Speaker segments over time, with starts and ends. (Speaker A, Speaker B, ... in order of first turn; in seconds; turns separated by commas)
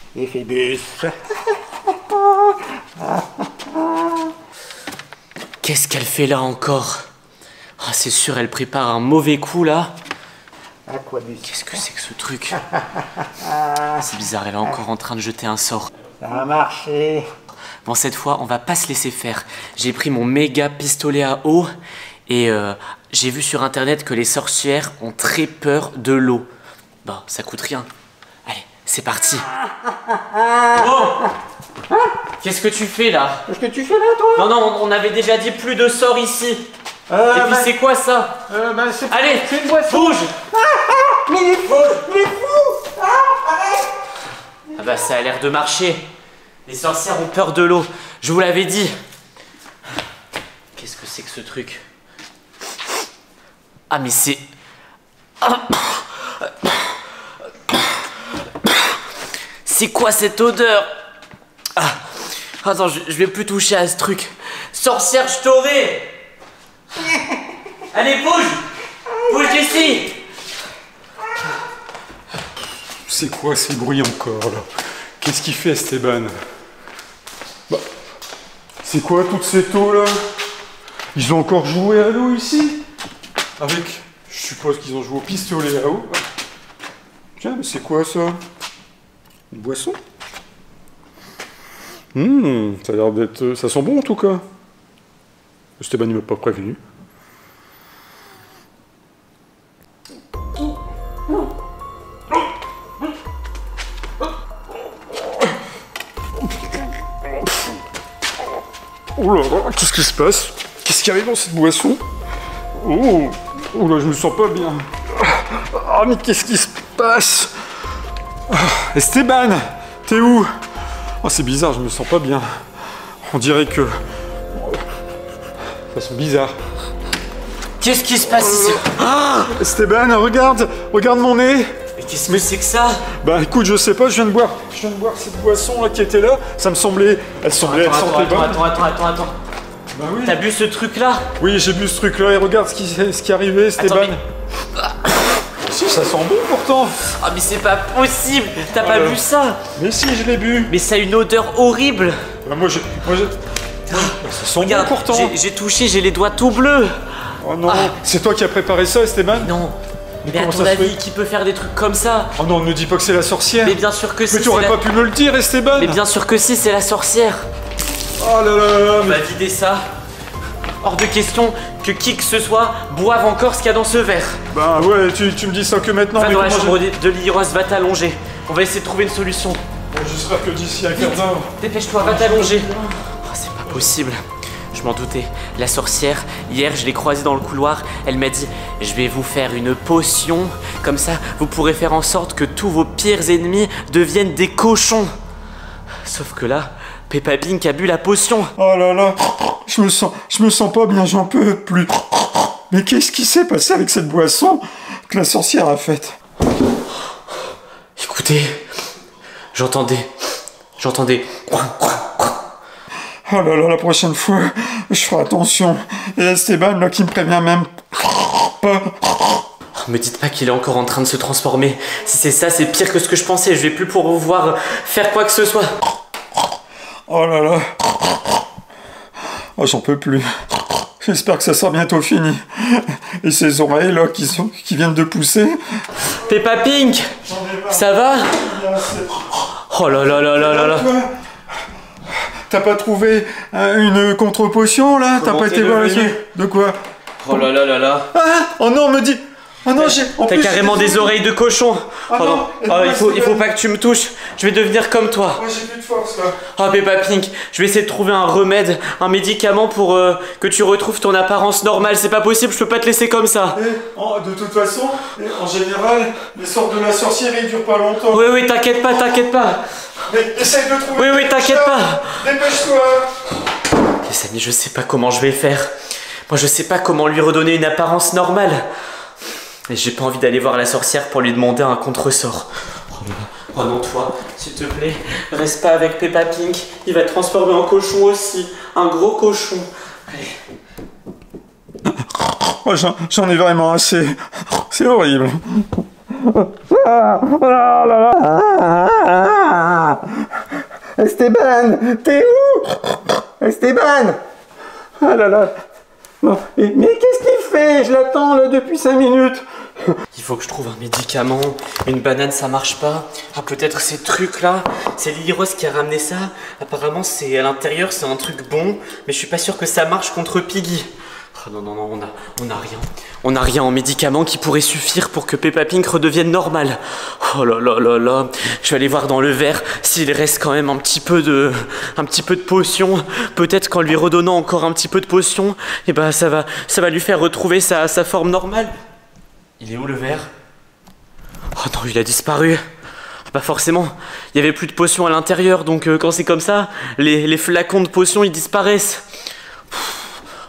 Speaker A: 0.1-1.1, Speaker A: 3.0-4.3, Speaker B: 5.6-7.0, Speaker B: 7.8-9.9, Speaker A: 10.9-11.6, Speaker B: 11.4-12.6, Speaker A: 13.0-14.0, Speaker B: 13.9-15.9, Speaker A: 16.2-17.3, Speaker B: 17.9-21.7, Speaker B: 22.3-26.5, Speaker B: 27.1-27.9, Speaker B: 28.5-29.5, Speaker A: 29.9-31.1, Speaker B: 30.7-31.2, Speaker B: 32.4-33.5, Speaker A: 33.5-34.5, Speaker B: 34.4-36.7, Speaker C: 37.1-37.7, Speaker B: 37.3-38.5, Speaker C: 38.5-40.0, Speaker B: 39.1-40.3, Speaker A: 40.6-43.9, Speaker B: 44.8-46.0, Speaker B: 46.7-49.0, Speaker B: 50.8-51.8, Speaker B: 53.9-54.4, Speaker B: 55.4-56.5, Speaker B: 59.6-60.9, Speaker B: 62.6-66.1, Speaker B: 67.9-68.6, Speaker B: 69.2-70.2, Speaker C: 73.1-74.7, Speaker C: 75.2-76.3, Speaker C: 78.8-80.2, Speaker C: 81.1-82.8, Speaker C: 83.6-86.2, Speaker C: 87.4-88.4, Speaker C: 89.5-90.0, Speaker C: 92.1-94.4, Speaker C: 95.8-96.8, Speaker C: 109.2-112.0, Speaker C: 112.8-117.5, Speaker C: 118.5-120.5, Speaker C: 121.2-122.5, Speaker C: 123.3-123.9, Speaker C: 124.5-124.8, Speaker C: 125.9-126.6, Speaker B: 127.8-129.5, Speaker C: 128.4-131.7, Speaker B: 132.0-133.1, Speaker C: 133.2-138.6, Speaker B: 137.6-139.4, Speaker C: 139.9-140.4, Speaker B: 140.2-141.3, Speaker C: 141.4-144.2, Speaker B: 143.8-144.2, Speaker C: 145.7-147.0, Speaker B: 147.1-149.6, Speaker C: 148.8-149.2, Speaker C: 149.8-150.7, Speaker B: 150.7-152.2, Speaker C: 152.4-153.4, Speaker C: 153.9-155.4, Speaker B: 153.9-156.9, Speaker C: 157.4-159.5, Speaker B: 157.7-158.0, Speaker B: 159.3-162.3, Speaker C: 160.2-160.9, Speaker C: 162.4-163.8, Speaker B: 163.6-164.8, Speaker C: 164.3-166.0, Speaker B: 165.7-167.5, Speaker C: 168.2-169.3, Speaker B: 169.0-169.9, Speaker B: 170.8-174.4, Speaker C: 174.5-176.8, Speaker B: 176.2-179.6, Speaker C: 179.9-182.9, Speaker B: 180.9-184.2, Speaker B: 184.7-195.1, Speaker B: 196.1-198.5, Speaker C: 198.6-202.1, Speaker C: 202.7-206.2, Speaker B: 208.0-208.6, Speaker B: 209.6-210.1, Speaker B: 210.8-212.4, Speaker C: 213.3-219.4, Speaker B: 219.8-225.7, Speaker C: 227.1-227.7, Speaker C: 229.6-230.3, Speaker C: 231.0-235.6, Speaker B: 236.1-237.1, Speaker C: 237.2-239.2, Speaker B: 237.7-238.5, Speaker B: 239.7-240.9, Speaker C: 240.1-241.1, Speaker C: 242.5-246.8, Speaker B: 245.2-246.2, Speaker B: 247.2-248.1, Speaker C: 248.1-251.2, Speaker B: 249.8-255.4, Speaker C: 252.1-253.5, Speaker C: 255.3-256.4, Speaker B: 256.5-263.6, Speaker C: 263.5-268.2, Speaker B: 268.1-269.6, Speaker C: 270.1-273.1, Speaker B: 270.9-272.3, Speaker B: 274.0-275.7, Speaker B: 276.3-278.6, Speaker B: 279.7-290.4, Speaker C: 292.1-300.0, Speaker C: 301.0-304.2, Speaker C: 305.0-305.5, Speaker C: 306.2-309.9, Speaker B: 310.1-338.7, Speaker B: 339.6-340.3, Speaker B: 341.6-342.6, Speaker B: 343.3-349.0, Speaker B: 349.7-350.0